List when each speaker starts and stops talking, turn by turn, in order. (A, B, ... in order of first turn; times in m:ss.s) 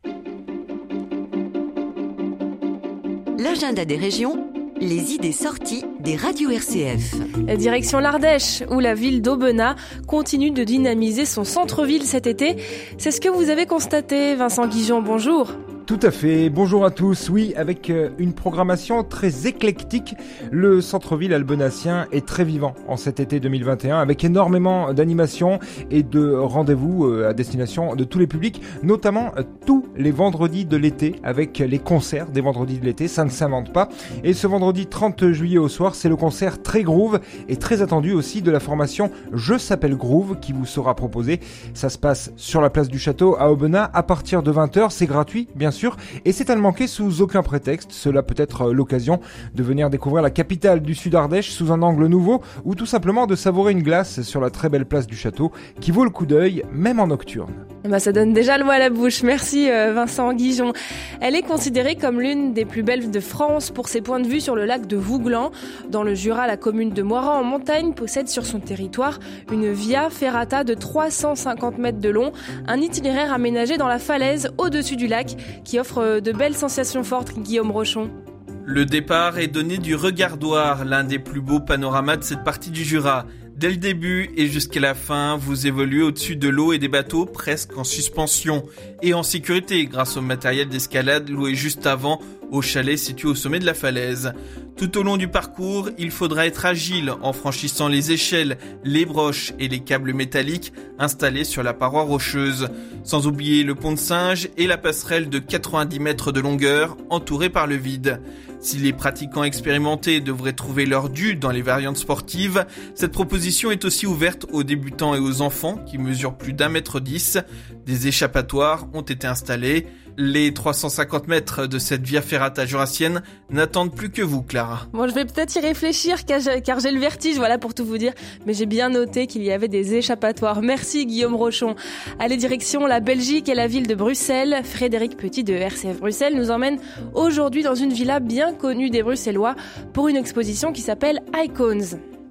0:03.4-0:07.3 A
0:07.5-0:15.6 B
0:15.9-0:57.6 C
0:57.8-1:18.1 B
1:18.6-2:04.9 D
2:04.9-2:22.0 B